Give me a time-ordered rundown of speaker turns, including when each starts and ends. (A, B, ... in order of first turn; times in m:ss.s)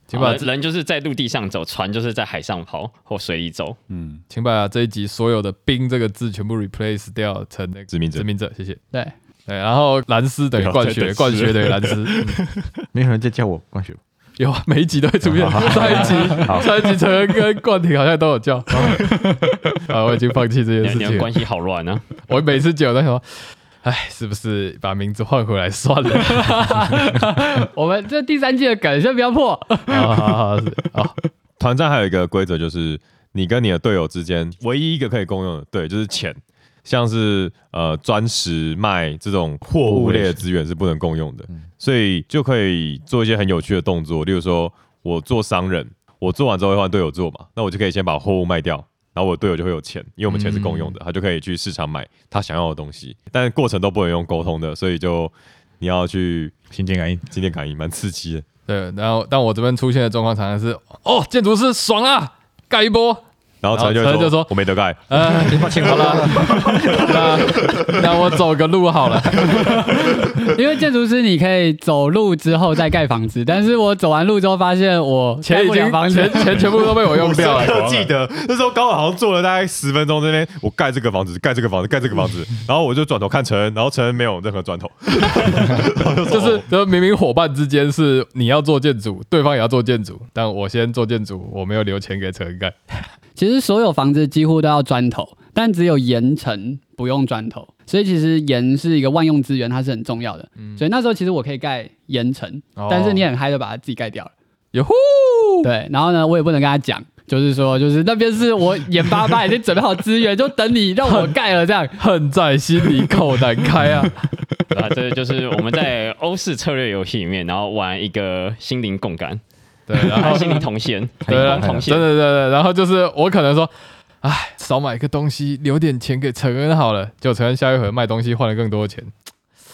0:00.1-0:00.5 A
0:00.1-0:03.8 B
0:03.9-0:04.2 C
0:04.3-0:08.8 A
0:07.9-0:08.3 D
0:09.5-0:12.4 A
0:10.6-0:12.7 C
0:12.9-0:14.0 E
0:14.4-0:21.3 A
0:15.3-0:16.7 E
0:20.8-0:22.1 B
0:22.3-0:26.8 A
0:26.2-0:30.4 F
0:29.9-0:31.1 A
0:31.6-0:56.6 D
0:39.8-0:40.4 E
0:50.3-0:50.9 A
0:56.7-0:57.2 E
0:57.3-0:58.4 D
0:58.7-1:04.6 A
1:03.6-1:05.1 D
1:05.1-1:09.8 A
1:05.4-1:07.9 E
1:09.4-1:16.9 F
1:15.4-1:17.8 A
1:16.6-1:18.1 C
1:17.1-1:26.7 D
1:26.3-1:33.1 A
1:33.4-1:44.3 F
1:42.8-1:43.2 A
1:44.7-1:45.7 A
1:45.6-1:52.0 F
1:51.1-1:51.3 A
1:52.0-1:54.3 A
1:54.7-1:59.4 B
1:59.9-2:00.7 A
2:00.0-2:02.1 B
2:01.2-2:01.9 E
2:01.3-2:09.1 A